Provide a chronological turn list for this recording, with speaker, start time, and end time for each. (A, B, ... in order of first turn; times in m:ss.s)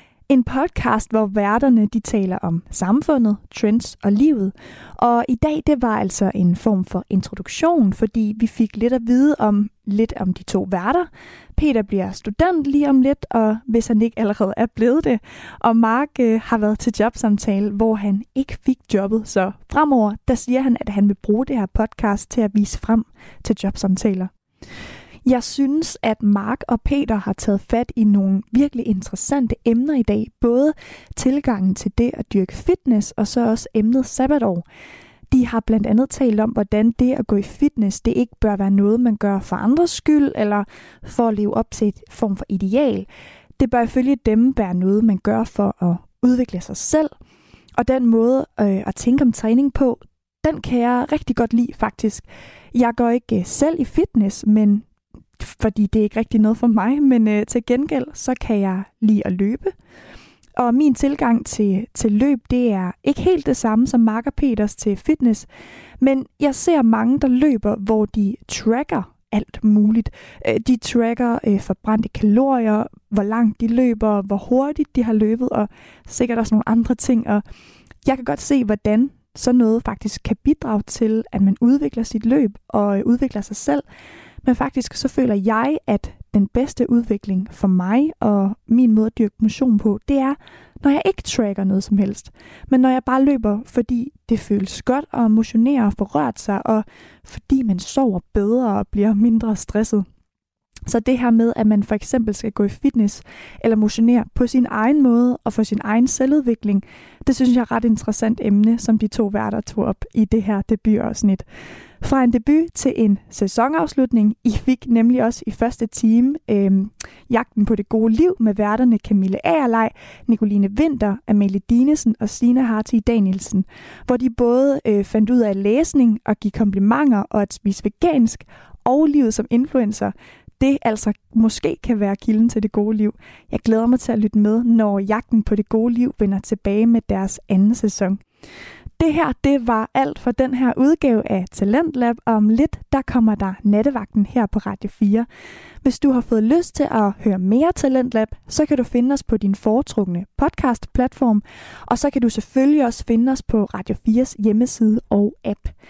0:00.3-0:24.3 A
0:25.2-0:34.6 A
0:35.3-0:43.1 A
0:43.6-0:47.1 A
0:47.8-0:54.9 A
0:55.4-0:59.7 A
1:00.6-1:05.5 A
1:06.0-1:17.4 A
1:18.0-1:23.8 A
1:24.4-1:40.0 A
1:40.9-1:51.4 A
1:52.0-2:18.2 A
2:19.0-2:25.3 A
2:25.8-2:35.7 A